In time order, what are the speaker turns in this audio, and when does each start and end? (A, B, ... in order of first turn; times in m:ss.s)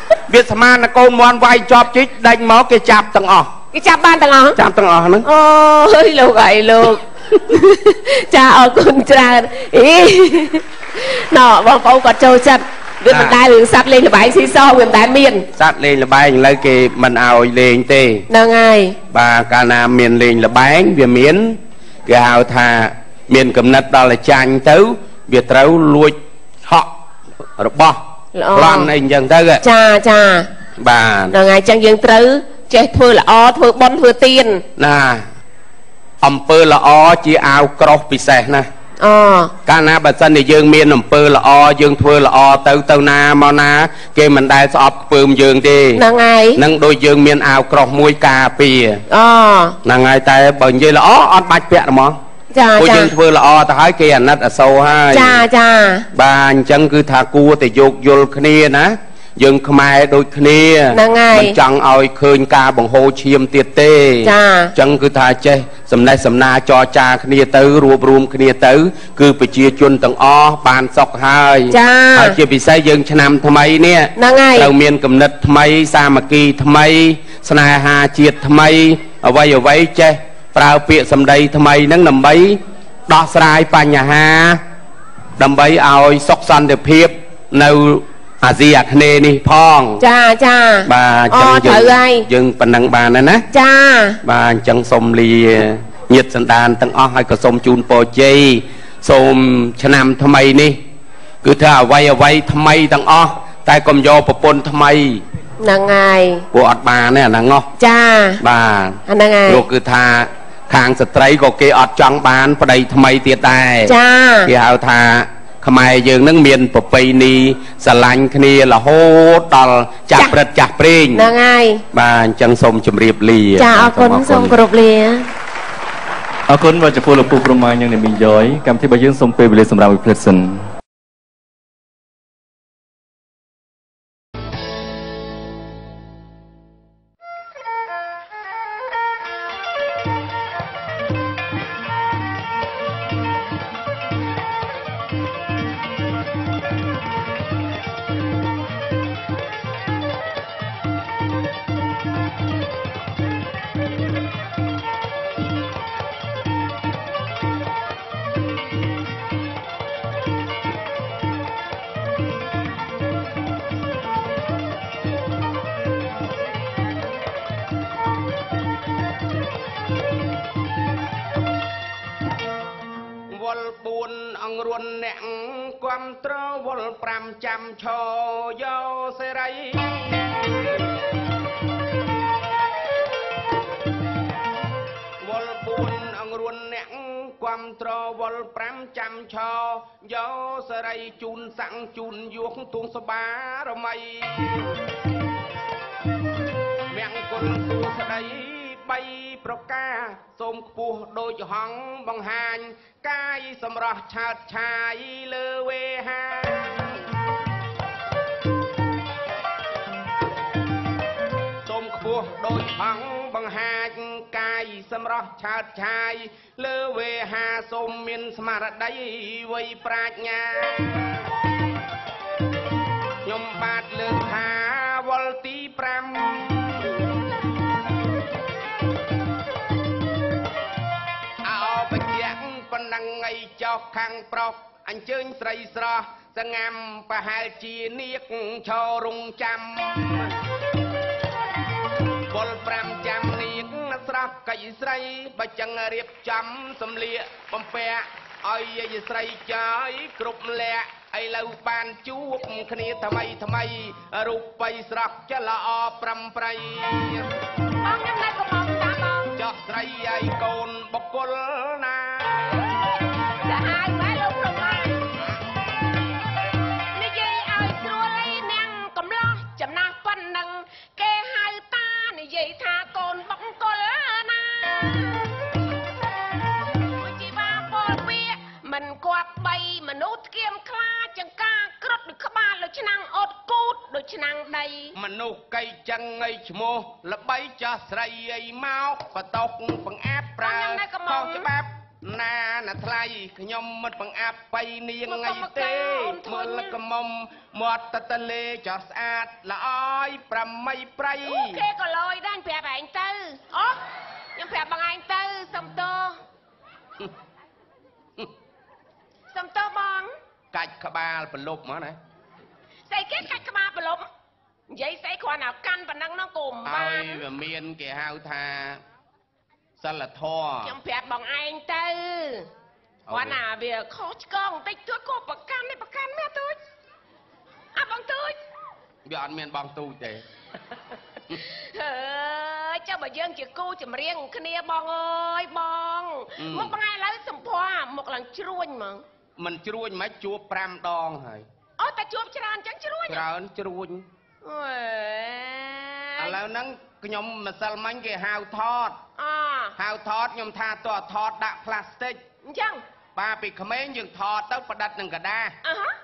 0:00.3-0:03.5 A
0:03.7-0:04.6 B
0:04.6-0:05.2 A
0:05.2-0:15.5 B
0:13.1-0:13.4 A
0:15.6-0:18.3 A
0:18.3-0:19.0 B
0:19.1-0:26.9 A
0:27.5-0:28.0 A
0:28.4-0:28.9 B
0:28.5-0:29.6 A
0:29.6-0:30.5 B
0:30.8-0:31.3 A
0:31.3-0:34.6 B
0:34.8-0:35.3 A
0:36.2-0:38.7 A
0:39.0-0:39.5 B
0:39.7-0:46.0 A
0:46.0-0:46.6 B
0:46.6-0:49.0 A
0:49.1-0:49.8 B
0:49.8-0:52.2 A
0:52.5-0:53.1 B
0:52.8-0:55.4 A
0:55.1-0:56.1 B
0:56.1-1:24.6 A
1:00.9-1:01.6 B
1:04.2-1:04.7 B
1:11.7-1:12.4 B
1:14.2-1:14.7 B
1:25.4-1:30.0 A
1:30.0-1:32.3 B
1:30.9-1:33.4 A
1:33.5-1:34.2 B
1:34.2-1:40.8 A
1:41.4-1:45.2 A
1:45.6-1:46.5 B
1:46.5-1:47.7 A
1:47.8-1:48.4 B
1:48.4-1:53.9 A
1:49.1-1:49.6 B
1:53.9-1:54.5 B
1:54.4-2:01.3 A
2:01.1-2:01.8 B
2:01.9-2:04.6 A
2:03.6-2:05.3 B
2:06.5-2:10.6 C
2:53.3-3:00.5 A
3:05.2-3:14.9 A
3:16.9-3:27.0 A
3:31.6-3:41.3 A
3:43.2-3:47.1 A
3:51.4-4:00.4 A
4:02.3-4:17.3 A
4:17.8-4:19.4 B
4:19.4-4:22.6 A
4:22.5-4:25.1 B
4:26.8-4:35.6 B
4:36.8-4:45.0 B
4:45.0-5:01.6 A
4:50.4-4:51.5 B
4:55.1-4:56.8 B
5:01.2-5:03.8 B
5:04.4-5:06.2 B
5:09.3-5:10.1 B
5:10.5-5:12.0 A
5:12.9-5:14.0 B
5:14.7-5:17.2 B
5:16.6-5:18.8 A
5:19.8-5:20.8 A
5:20.6-5:22.5 B
5:23.1-5:23.4 A
5:23.1-5:26.6 B
5:27.8-5:28.4 B
5:29.0-5:30.3 A
5:31.3-5:39.0 B
5:36.4-5:36.8 A
5:39.4-5:41.5 A
5:41.8-5:43.3 B
5:43.1-5:44.1 A
5:44.4-5:46.4 B
5:46.2-5:49.0 A
5:49.2-5:49.8 B
5:49.8-5:52.2 A
5:52.4-5:52.8 B
5:53.2-5:55.6 A
5:55.6-5:56.0 B